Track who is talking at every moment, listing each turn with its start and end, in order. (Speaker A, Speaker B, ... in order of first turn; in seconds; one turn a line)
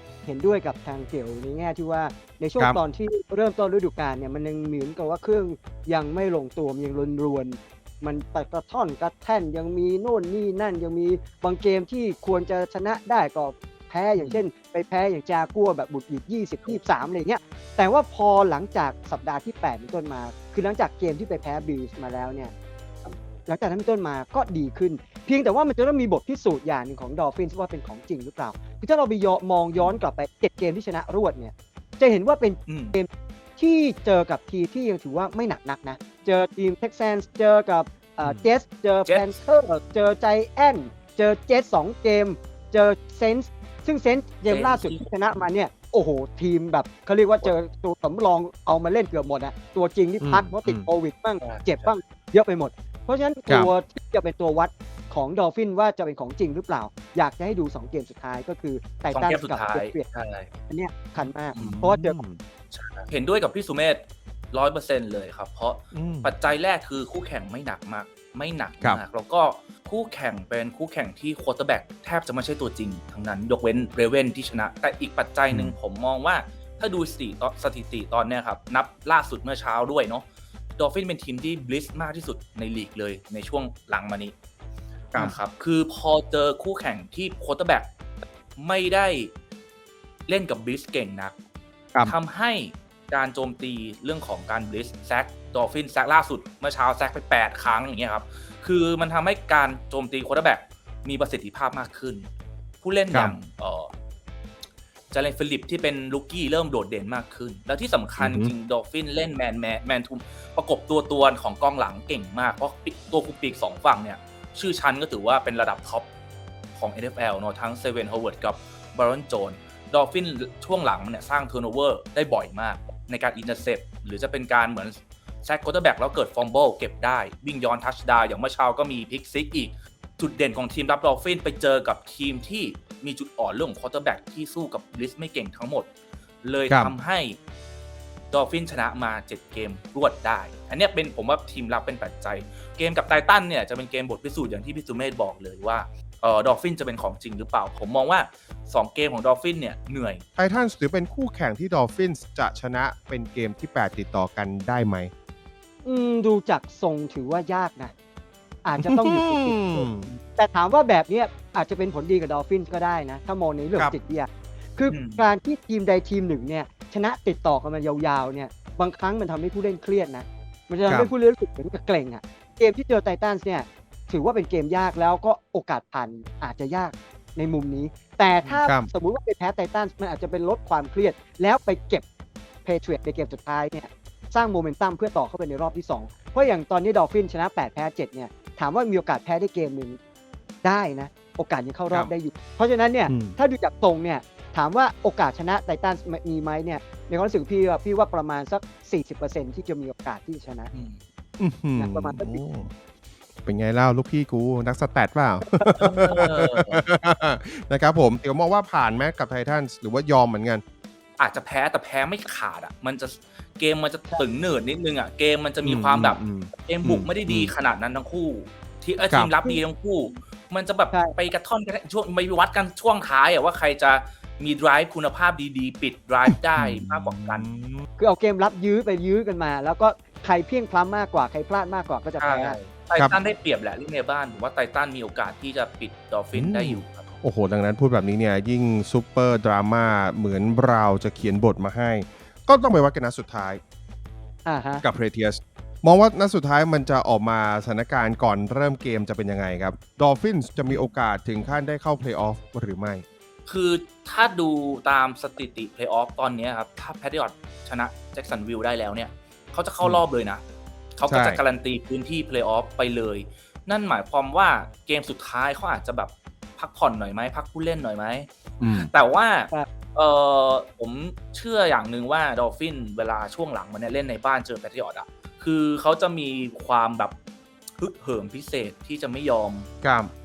Speaker A: 0.2-22.5
Speaker B: 14.2-14.4
Speaker A: 23.4-60.1
Speaker B: 29.7-30.0
Speaker B: 32.7-33.0
Speaker B: 39.0-39.3
Speaker B: 44.5-45.0
Speaker C: 50.2-50.9
Speaker B: 51.4-51.9
Speaker B: 59.1-60.5
Speaker A: 60.7-62.2
Speaker B: 61.5-61.8
Speaker C: 61.6-62.4
Speaker B: 62.7-80.2
Speaker C: 65.9-66.2
Speaker B: 80.8-84.3
Speaker B: 85.1-87.9
Speaker B: 88.6-89.3
Speaker B: 90.3-91.3
Speaker B: 92.0-102.3
Speaker B: 102.8-103.9
Speaker B: 105.1-116.1
Speaker C: 108.2-108.5
Speaker B: 116.8-135.9
Speaker B: 136.4-137.4
Speaker C: 136.7-136.9
Speaker B: 138.3-150.2
Speaker C: 150.3-155.1
Speaker A: 155.8-157.9
Speaker A: 158.6-182.0
Speaker C: 158.8-160.1
Speaker B: 164.9-165.2
Speaker A: 182.6-190.0
Speaker A: 190.6-200.7
Speaker C: 193.1-193.3
Speaker B: 200.7-201.0
Speaker C: 201.4-202.7
Speaker A: 201.8-202.4
Speaker C: 203.4-210.6
Speaker B: 205.8-206.8
Speaker B: 211.2-227.5
Speaker C: 215.6-217.5
Speaker C: 219.1-219.4
Speaker C: 226.6-227.8
Speaker A: 228.0-232.6
Speaker B: 232.2-237.1
Speaker C: 236.3-243.6
Speaker A: 244.4-244.8
Speaker C: 244.8-253.0
Speaker B: 253.4-260.4
Speaker B: 260.9-277.1
Speaker C: 261.1-261.4
Speaker C: 268.6-268.9
Speaker B: 277.8-279.7
Speaker C: 279.8-280.1